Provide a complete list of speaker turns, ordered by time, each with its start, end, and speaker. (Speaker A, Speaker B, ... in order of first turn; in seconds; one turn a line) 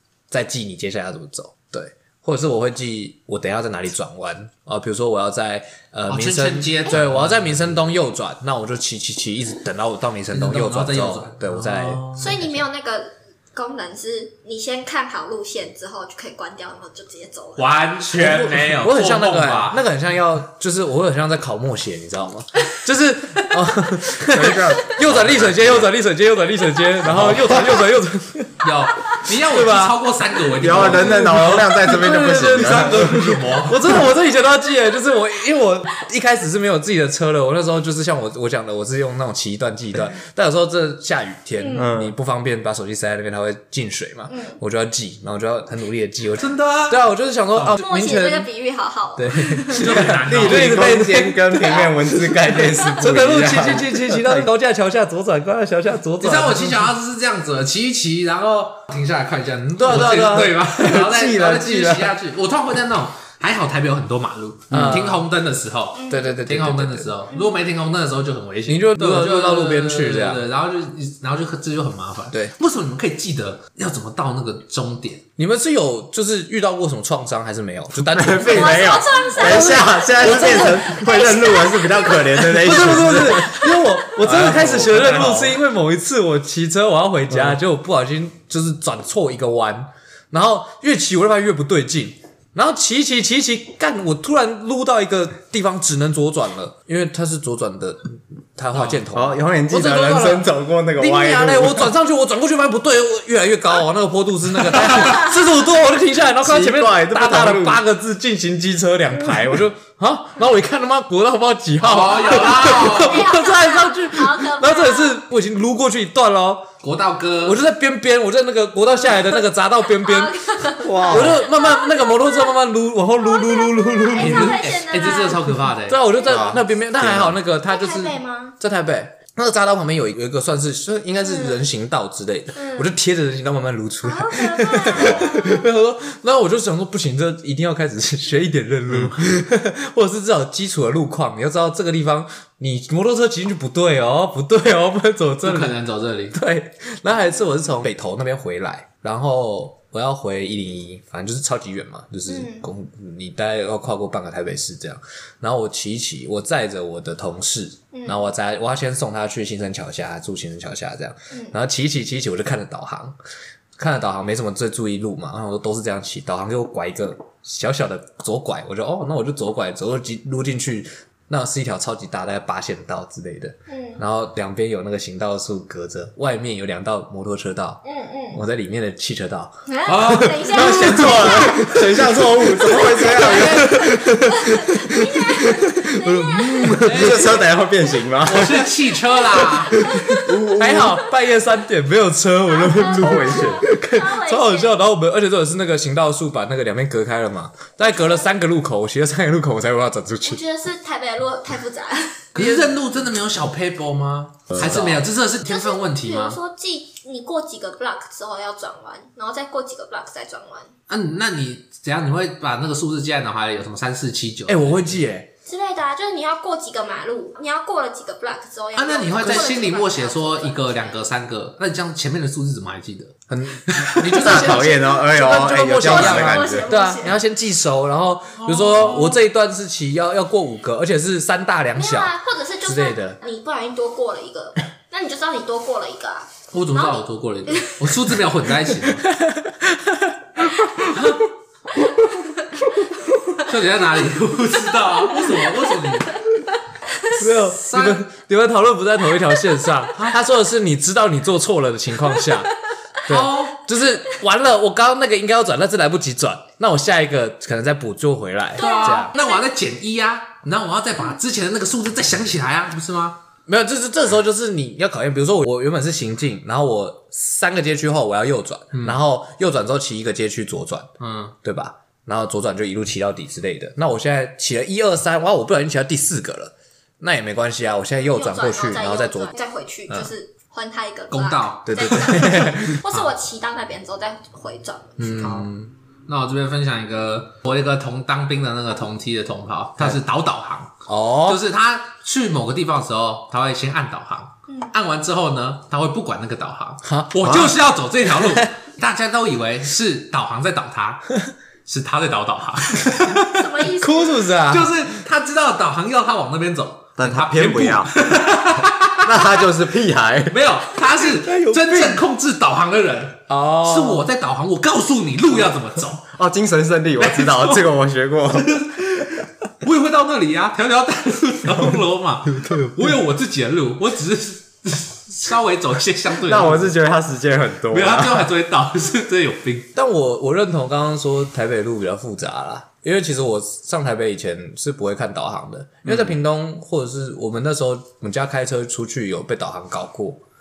Speaker A: 0.3-12.6
Speaker B: 6.1-7.7
Speaker B: 10.3-12.4
Speaker C: 12.2-17.8
Speaker B: 17.6-19.8
Speaker A: 18.2-30.0
Speaker D: 24.2-25.9
Speaker D: 27.0-27.8
Speaker B: 28.6-31.6
Speaker D: 30.6-33.7
Speaker A: 30.9-48.5
Speaker B: 32.2-34.0
Speaker C: 41.6-41.9
Speaker D: 41.7-42.1
Speaker C: 44.3-44.6
Speaker B: 46.4-47.0
Speaker B: 47.5-47.8
Speaker C: 47.8-50.0
Speaker A: 49.1-51.9
Speaker B: 49.7-51.0
Speaker D: 50.1-54.5
Speaker C: 51.6-51.9
Speaker A: 52.9-56.9
Speaker B: 56.2-75.2
Speaker A: 59.8-62.0
Speaker D: 60.8-62.0
Speaker A: 64.7-65.3
Speaker C: 65.9-66.4
Speaker A: 66.1-67.1
Speaker C: 67.3-67.6
Speaker A: 68.7-70.5
Speaker A: 75.4-80.9
Speaker D: 78.1-85.6
Speaker C: 78.4-82.6
Speaker A: 82.4-116.7
Speaker C: 83.2-84.0
Speaker D: 87.3-87.6
Speaker B: 98.7-99.0
Speaker D: 99.1-101.9
Speaker D: 106.4-107.8
Speaker B: 111.8-113.3
Speaker C: 111.9-115.2
Speaker B: 116.8-117.6
Speaker A: 117.4-124.6
Speaker C: 119.9-122.6
Speaker D: 120.8-121.4
Speaker C: 123.2-126.6
Speaker B: 124.1-126.0
Speaker A: 125.9-145.8
Speaker D: 126.2-127.3
Speaker C: 127.7-128.5
Speaker C: 131.2-131.6
Speaker C: 132.5-132.9
Speaker C: 134.0-135.7
Speaker D: 138.9-139.2
Speaker B: 145.4-146.4
Speaker A: 146.3-163.2
Speaker C: 152.3-152.7
Speaker C: 157.9-158.2
Speaker A: 163.8-177.8
Speaker C: 173.7-174.0
Speaker C: 177.8-178.4
Speaker A: 178.3-179.5
Speaker C: 179.7-181.8
Speaker B: 179.8-181.2
Speaker A: 180.1-187.2
Speaker D: 180.5-184.0
Speaker C: 182.6-186.8
Speaker B: 183.1-183.9
Speaker D: 186.7-188.8
Speaker B: 186.8-187.4
Speaker B: 188.2-189.8
Speaker C: 189.7-190.2
Speaker D: 189.7-191.0
Speaker A: 189.9-200.4
Speaker C: 192.6-194.8
Speaker D: 192.8-193.7
Speaker C: 197.8-198.3
Speaker C: 200.2-202.3
Speaker B: 202.3-206.4
Speaker A: 202.4-202.7
Speaker A: 204.5-205.0
Speaker C: 205.4-210.7
Speaker B: 210.9-215.0
Speaker A: 214.5-215.3
Speaker C: 215.4-221.0
Speaker B: 218.8-223.1
Speaker A: 223.3-232.1
Speaker B: 223.6-224.3
Speaker D: 224.1-226.7
Speaker C: 224.3-227.2
Speaker B: 228.4-229.2
Speaker C: 231.7-237.9
Speaker A: 232.6-233.2
Speaker B: 236.5-239.0
Speaker A: 239.0-241.1
Speaker B: 240.9-241.2
Speaker B: 243.4-246.2
Speaker A: 247.1-259.1
Speaker B: 247.5-248.0
Speaker B: 253.1-253.6
Speaker C: 258.6-259.4
Speaker B: 258.6-263.2
Speaker A: 263.5-270.9
Speaker B: 268.7-269.0
Speaker B: 271.0-271.3
Speaker A: 271.4-279.3
Speaker C: 278.1-285.2
Speaker B: 281.1-282.4
Speaker A: 281.7-282.8
Speaker B: 285.0-285.5
Speaker A: 285.0-285.7
Speaker B: 286.1-301.1
Speaker A: 290.9-291.4
Speaker C: 294.5-294.7
Speaker A: 296.8-297.6
Speaker A: 298.2-298.5
Speaker B: 301.6-303.4
Speaker C: 303.2-304.3
Speaker A: 303.8-304.8
Speaker B: 304.5-309.3
Speaker D: 307.0-308.0
Speaker D: 308.9-310.4
Speaker B: 310.3-316.1
Speaker A: 311.0-312.0
Speaker A: 313.3-314.0
Speaker D: 316.1-318.6
Speaker B: 317.0-317.7
Speaker B: 318.4-326.8
Speaker D: 326.2-328.3
Speaker B: 327.7-329.7
Speaker A: 329.7-340.2
Speaker D: 335.9-336.1